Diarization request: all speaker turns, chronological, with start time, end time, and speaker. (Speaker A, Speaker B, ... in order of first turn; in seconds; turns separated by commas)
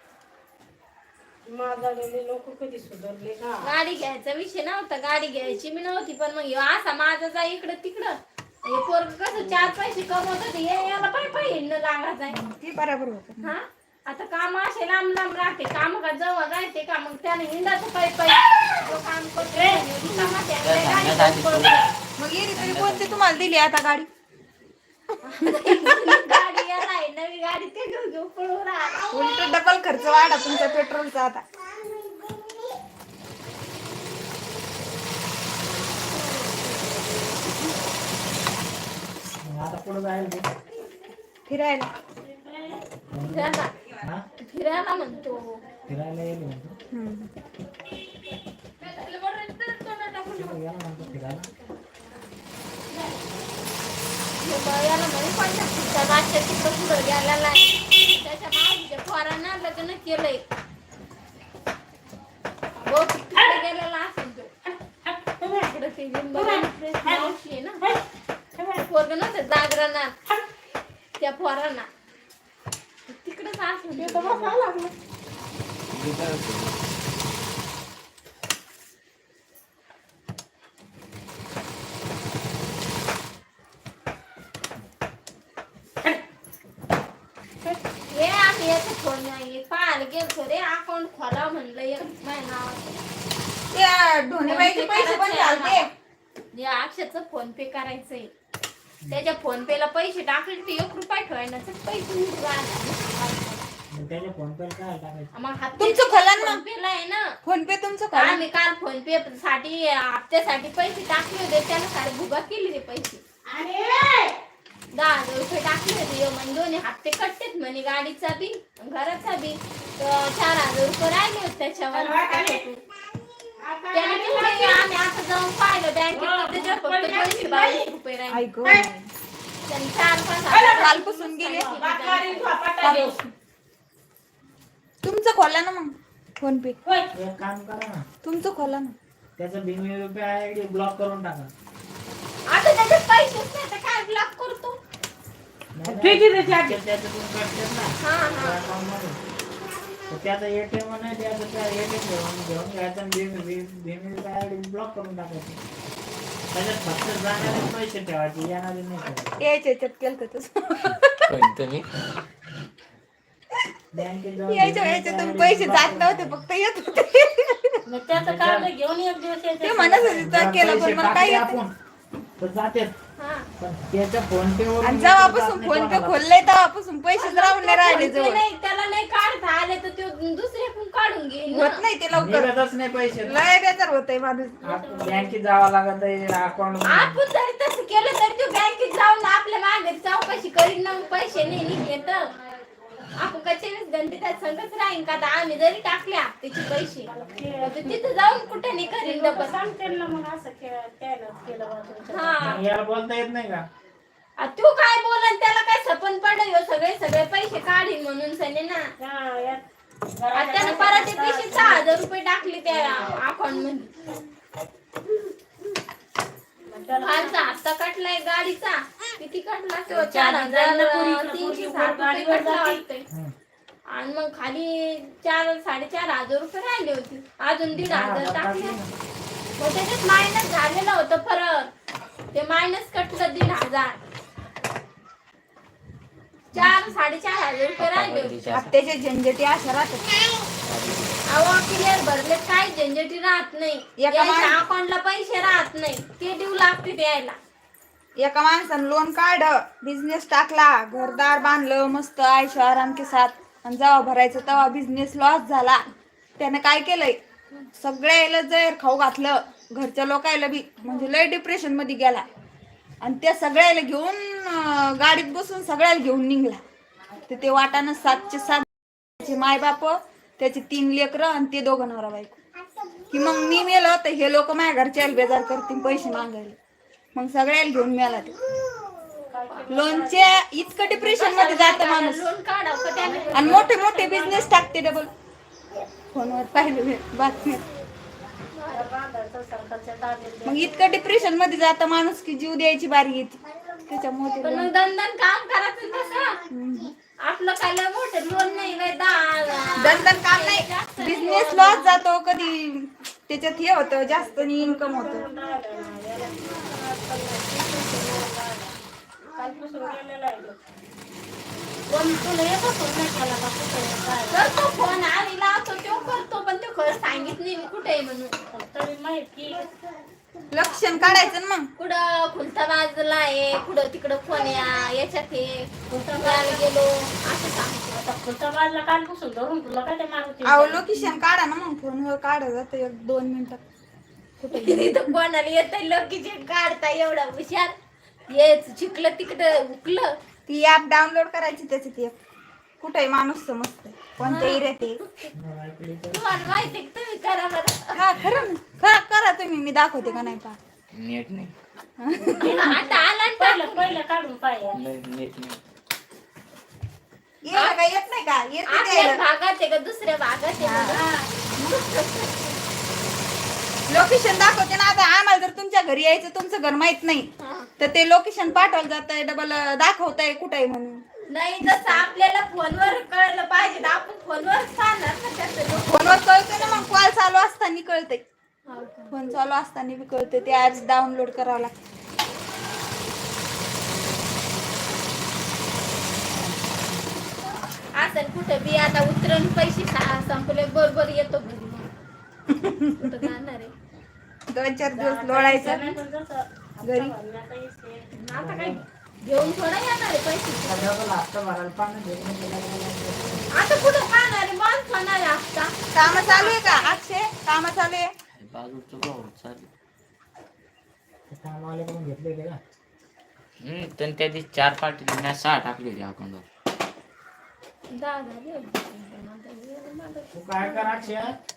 Speaker A: 1.5-3.7, Speaker B: 3.6-12.4, Speaker C: 12.3-13.5, Speaker B: 13.4-21.8, Speaker A: 19.4-19.8, Speaker D: 20.6-21.8, Speaker C: 22.2-24.1, Speaker D: 22.5-23.2, Speaker B: 25.2-29.3, Speaker C: 25.4-26.4, Speaker C: 29.1-31.4, Speaker B: 36.3-36.6, Speaker E: 39.4-40.4, Speaker C: 41.5-41.9, Speaker A: 42.2-42.8, Speaker E: 43.1-44.2, Speaker B: 43.3-43.7, Speaker B: 44.4-45.6, Speaker E: 45.9-46.8, Speaker C: 46.9-47.3, Speaker B: 48.8-50.6, Speaker E: 50.4-51.5, Speaker B: 51.1-51.7, Speaker B: 54.4-60.4, Speaker B: 62.8-64.5, Speaker A: 65.0-65.7, Speaker B: 65.4-67.9, Speaker A: 66.3-68.0, Speaker A: 68.5-68.8, Speaker B: 68.8-70.2, Speaker B: 71.2-71.9, Speaker B: 73.1-74.5, Speaker A: 74.0-74.9, Speaker D: 75.9-76.8, Speaker B: 88.1-92.8, Speaker C: 93.7-95.9, Speaker B: 94.4-95.9, Speaker B: 96.5-98.3, Speaker B: 99.1-103.2, Speaker A: 103.2-103.6, Speaker E: 103.9-105.3, Speaker B: 105.3-107.4, Speaker C: 105.8-106.6, Speaker C: 107.4-108.4, Speaker B: 108.1-113.2, Speaker A: 113.5-114.3, Speaker B: 114.9-122.8, Speaker A: 121.9-122.7, Speaker A: 123.6-124.8, Speaker B: 123.9-128.4, Speaker A: 126.1-127.9, Speaker C: 128.3-129.1, Speaker B: 129.7-132.5, Speaker A: 130.5-130.9, Speaker C: 130.7-131.8, Speaker A: 131.7-133.2, Speaker C: 132.8-133.2, Speaker C: 135.0-136.8, Speaker A: 136.8-137.1, Speaker E: 137.1-138.1, Speaker C: 138.2-138.9, Speaker E: 139.4-141.5, Speaker B: 142.5-144.8, Speaker E: 145.7-149.2, Speaker A: 145.9-146.8, Speaker B: 148.0-148.6, Speaker E: 150.1-155.6, Speaker E: 156.5-159.4, Speaker C: 159.4-161.3, Speaker D: 161.3-161.9, Speaker E: 163.9-166.4, Speaker C: 164.5-167.8, Speaker A: 167.8-170.5, Speaker E: 168.1-168.7, Speaker C: 169.6-171.6, Speaker E: 170.2-171.7, Speaker E: 172.4-172.9, Speaker B: 173.2-173.5, Speaker E: 173.6-176.2, Speaker C: 174.8-178.4, Speaker B: 177.2-181.8, Speaker C: 181.5-182.5, Speaker E: 182.1-183.4, Speaker C: 183.2-184.7, Speaker A: 184.6-185.4, Speaker E: 184.6-187.2, Speaker B: 186.9-192.3, Speaker B: 193.2-197.1, Speaker A: 197.1-198.0, Speaker B: 197.6-199.6, Speaker A: 199.0-202.6, Speaker B: 202.1-202.6, Speaker E: 202.4-203.6, Speaker B: 204.4-208.8, Speaker A: 209.0-212.0, Speaker B: 210.3-213.9, Speaker A: 212.7-213.2, Speaker A: 216.7-217.4, Speaker B: 217.0-223.1, Speaker A: 219.9-222.8, Speaker B: 223.9-228.8, Speaker E: 227.7-228.9, Speaker B: 229.6-231.7, Speaker B: 232.3-234.0, Speaker B: 236.5-238.6, Speaker D: 237.8-238.7, Speaker C: 238.5-240.5, Speaker D: 240.6-241.2, Speaker B: 241.3-247.4, Speaker C: 244.0-244.6, Speaker C: 248.2-255.8, Speaker C: 256.4-257.2, Speaker C: 257.8-262.2, Speaker C: 263.0-266.6, Speaker C: 267.2-272.4, Speaker C: 273.1-276.6, Speaker C: 277.1-278.4, Speaker A: 279.3-280.4, Speaker B: 279.5-279.8, Speaker C: 279.7-282.2, Speaker B: 280.9-283.7, Speaker A: 283.0-284.5, Speaker C: 283.3-285.1, Speaker C: 286.1-287.6, Speaker B: 288.5-288.9, Speaker A: 288.7-290.9, Speaker C: 290.4-294.7, Speaker B: 294.4-296.4, Speaker C: 296.5-296.9, Speaker B: 297.2-302.0, Speaker C: 299.8-305.2, Speaker A: 304.0-308.7, Speaker A: 309.3-310.6, Speaker A: 311.9-314.5, Speaker B: 314.3-318.3, Speaker A: 318.5-319.7, Speaker C: 320.5-321.7, Speaker B: 321.8-328.0, Speaker A: 325.9-326.6, Speaker A: 327.9-330.9, Speaker C: 330.4-333.6, Speaker C: 334.4-335.2, Speaker B: 334.5-337.7, Speaker B: 338.3-340.1, Speaker C: 340.5-342.1, Speaker C: 342.8-345.0, Speaker E: 344.2-344.4, Speaker B: 344.2-345.3, Speaker E: 345.3-346.5, Speaker B: 346.1-348.0, Speaker C: 347.9-350.6, Speaker D: 350.9-351.5, Speaker C: 352.0-352.6, Speaker B: 352.4-353.9, Speaker A: 352.4-354.8, Speaker D: 354.7-355.6, Speaker C: 357.4-359.2, Speaker B: 358.7-361.1, Speaker C: 360.6-361.0, Speaker A: 360.9-361.2, Speaker B: 361.6-362.6, Speaker C: 363.9-371.1, Speaker B: 367.4-367.7, Speaker B: 371.3-377.0, Speaker C: 371.6-372.0, Speaker C: 375.8-378.2, Speaker B: 378.7-379.1, Speaker C: 379.1-381.7, Speaker B: 388.0-392.0, Speaker C: 392.5-393.3, Speaker B: 393.0-393.7, Speaker C: 394.5-395.9, Speaker A: 394.9-398.1, Speaker C: 396.8-397.1, Speaker B: 398.1-400.9, Speaker E: 398.3-398.8, Speaker E: 400.6-403.5, Speaker B: 403.5-407.0, Speaker C: 405.9-408.1, Speaker D: 408.4-409.7, Speaker E: 411.3-412.6, Speaker D: 413.6-416.4, Speaker B: 417.9-421.3, Speaker E: 420.3-421.3